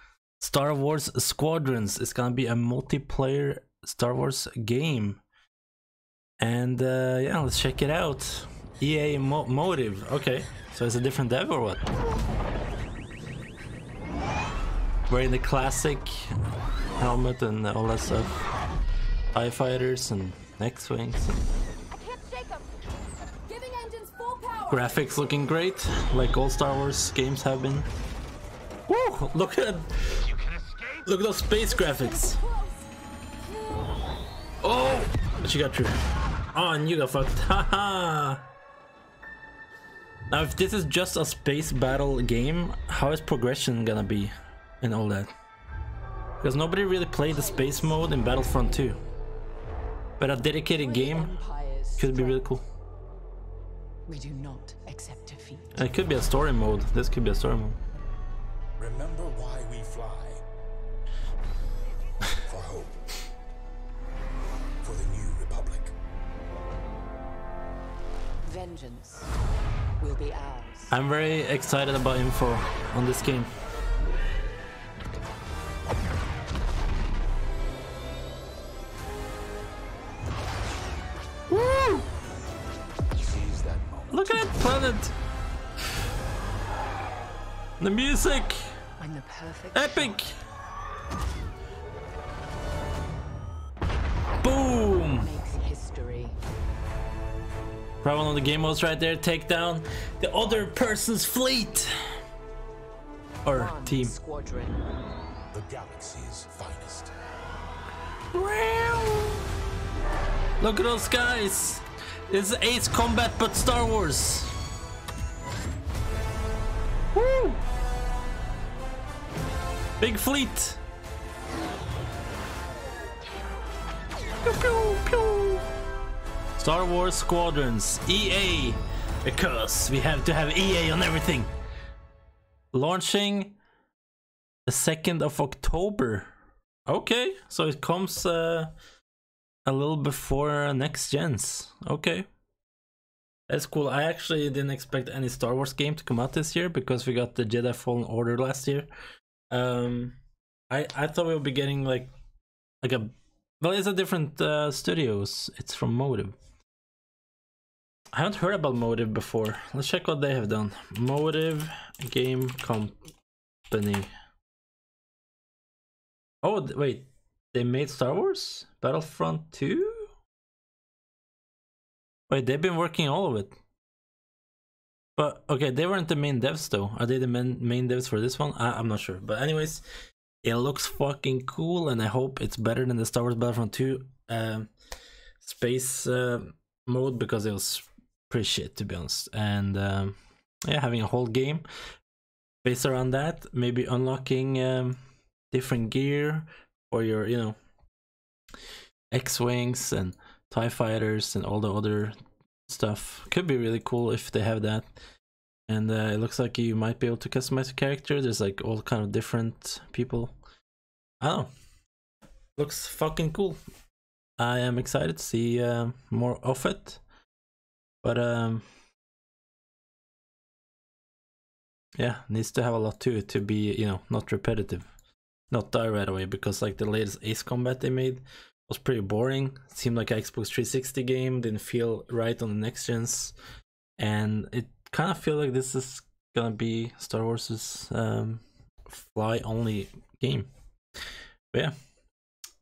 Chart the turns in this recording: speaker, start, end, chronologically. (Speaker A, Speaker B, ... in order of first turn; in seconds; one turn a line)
Speaker A: 0.4-5.2
Speaker A: 6.4-11.9
Speaker A: 15.1-16.3
Speaker A: 17.0-18.4
Speaker A: 19.3-21.4
Speaker B: 21.9-22.8
Speaker B: 23.3-25.0
Speaker A: 24.7-27.9
Speaker A: 28.9-30.3
Speaker A: 31.0-32.4
Speaker B: 31.8-32.9
Speaker B: 33.4-34.0
Speaker A: 34.6-36.0
Speaker A: 36.5-38.4
Speaker A: 40.3-45.3
Speaker A: 46.4-49.0
Speaker B: 47.3-48.1
Speaker A: 50.2-51.3
Speaker B: 50.7-52.5
Speaker A: 52.0-52.6
Speaker B: 54.1-55.9
Speaker A: 55.7-57.8
Speaker C: 58.8-60.4
Speaker C: 62.4-63.0
Speaker C: 64.8-65.9
Speaker B: 68.4-69.3
Speaker B: 70.0-71.0
Speaker A: 70.9-73.5
Speaker A: 81.5-82.1
Speaker C: 83.1-84.3
Speaker A: 84.1-85.1
Speaker A: 87.8-88.8
Speaker B: 89.0-90.2
Speaker A: 89.7-90.4
Speaker A: 94.4-95.3
Speaker B: 95.0-96.4
Speaker A: 98.0-101.9
Speaker A: 103.4-104.1
Speaker B: 103.5-104.8
Speaker C: 105.5-107.1
Speaker A: 108.3-109.4
Speaker A: 110.6-114.5
Speaker A: 117.1-117.6
Speaker A: 120.0-120.8
Speaker A: 124.4-125.6
Speaker A: 126.6-131.5
Speaker A: 132.7-133.6
Speaker A: 134.7-136.3
Speaker A: 136.9-138.7
Speaker A: 139.7-142.3
Speaker A: 143.5-148.9
Speaker A: 149.5-150.2
Speaker A: 150.7-152.1
Speaker A: 152.8-156.3
Speaker A: 158.1-163.0
Speaker A: 163.7-164.1
Speaker A: 166.4-170.1
Speaker A: 172.3-173.5
Speaker A: 175.2-179.8
Speaker A: 180.4-184.7
Speaker A: 185.4-191.7
Speaker A: 192.6-195.0
Speaker A: 195.5-197.6
Speaker A: 199.1-202.1
Speaker A: 202.7-204.9
Speaker A: 205.7-210.3
Speaker A: 211.2-211.5
Speaker A: 212.6-213.6
Speaker A: 214.4-217.0
Speaker A: 218.0-218.6
Speaker A: 222.0-224.9
Speaker A: 225.5-233.3
Speaker A: 234.0-240.5